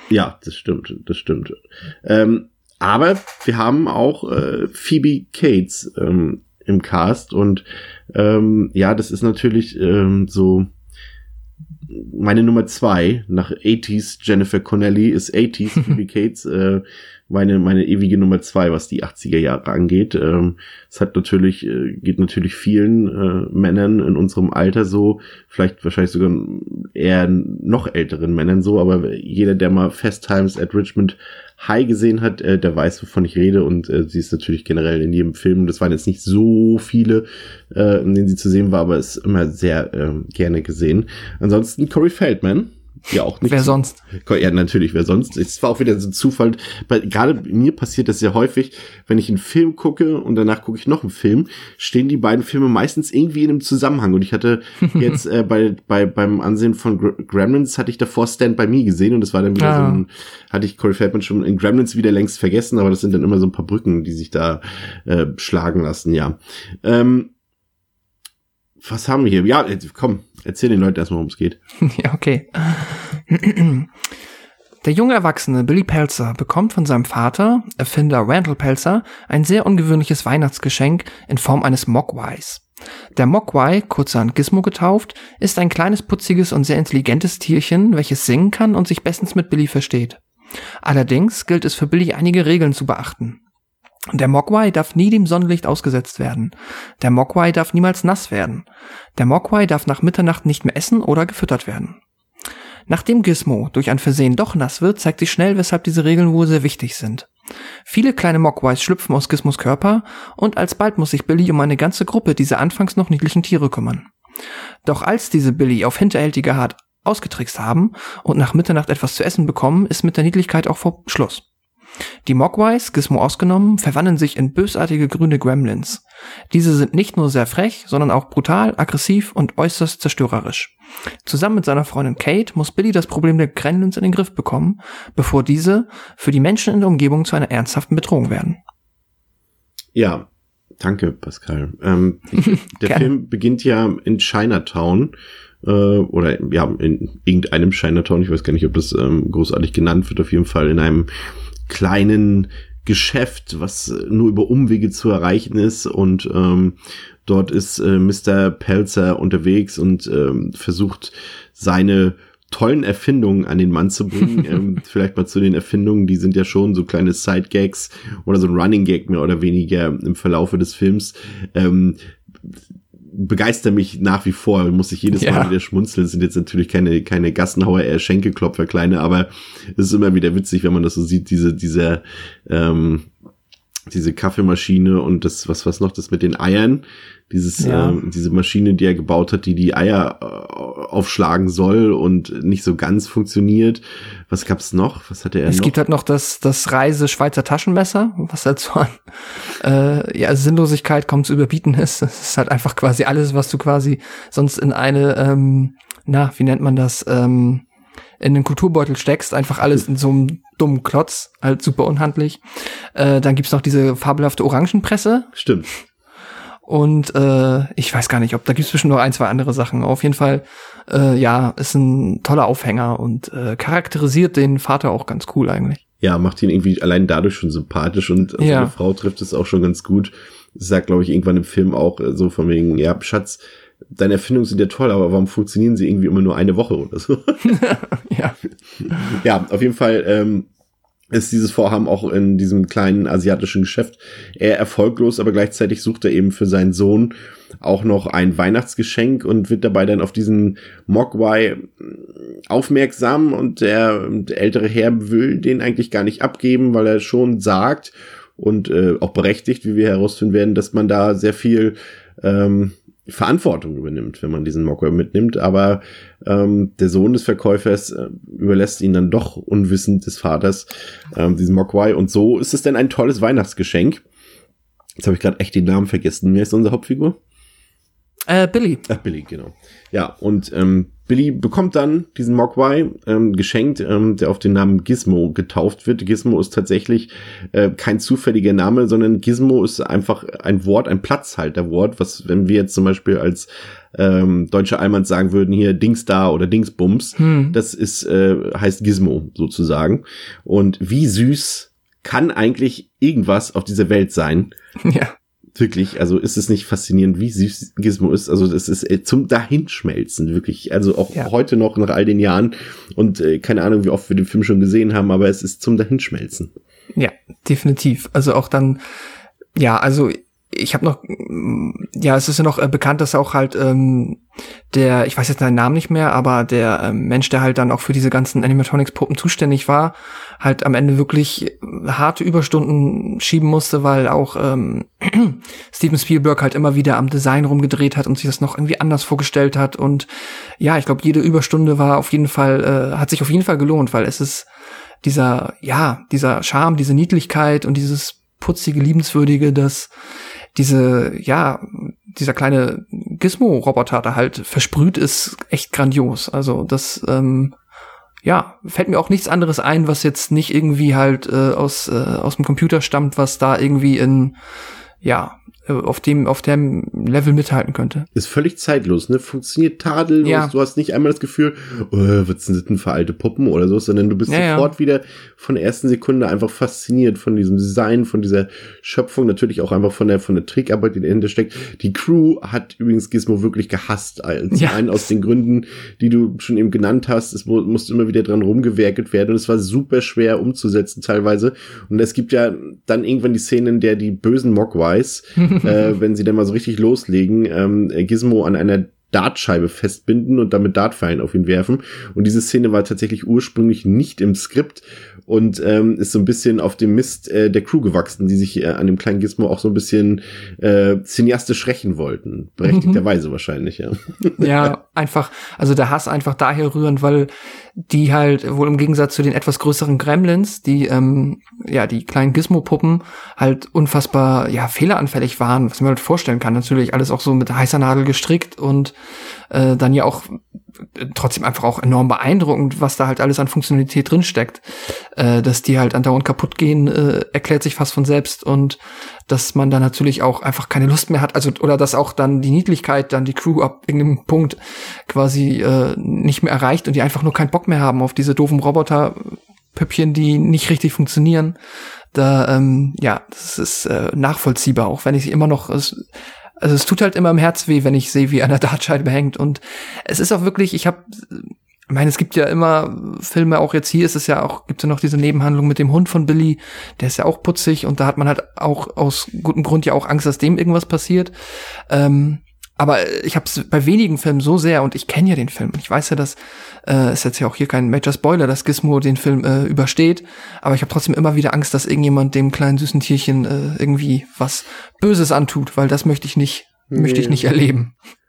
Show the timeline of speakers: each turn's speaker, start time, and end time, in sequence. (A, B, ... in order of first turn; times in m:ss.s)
0:00.1-0:10.7 A
0:11.9-1:07.3 A
0:43.5-0:44.0 B
0:54.9-0:55.2 B
0:59.6-1:00.0 B
1:08.8-1:11.6 A
1:11.8-1:13.9 B
1:14.8-1:22.6 B
1:23.2-1:30.2 B
1:30.8-1:33.4 B
1:34.1-1:38.6 B
1:39.2-1:42.0 B
1:42.9-1:47.3 B
1:47.9-1:54.1 B
1:54.8-2:01.4 B
2:02.2-2:10.7 B
2:11.2-2:18.6 B
2:19.9-2:20.3 A
2:20.8-2:31.1 A
2:22.8-2:23.1 B
2:31.7-3:03.1 A
2:55.1-2:55.5 B
3:03.9-3:15.8 A
3:07.6-3:08.0 B
3:15.4-3:27.6 B
3:28.2-3:32.4 B
3:32.9-3:35.3 B
3:35.3-3:35.7 A
3:36.6-3:45.8 B
3:46.0-3:57.5 A
3:48.4-3:48.7 B
3:57.4-3:58.4 B
3:59.0-4:00.5 A
4:01.1-4:34.0 A
4:35.0-4:37.2 A
4:38.3-4:38.9 B
4:38.9-5:04.5 A
4:57.2-4:57.6 B
5:04.8-5:05.1 B
5:05.5-5:16.5 A
5:16.9-5:18.8 B
5:19.6-5:24.2 B
5:24.7-5:40.1 B
5:40.6-5:44.5 B
5:45.0-5:49.9 B
5:50.5-5:57.5 B
5:58.2-6:04.4 B
6:05.0-6:08.1 B
6:08.1-6:54.7 A
6:10.2-6:10.5 B
6:14.3-6:14.7 B
6:24.5-6:25.0 B
6:52.6-6:53.0 B
6:54.4-7:08.9 B
7:09.5-7:10.4 B
7:11.0-7:31.5 B
7:32.1-7:36.0 B
7:36.6-7:51.3 B
7:51.9-8:07.9 B
8:06.9-8:07.4 A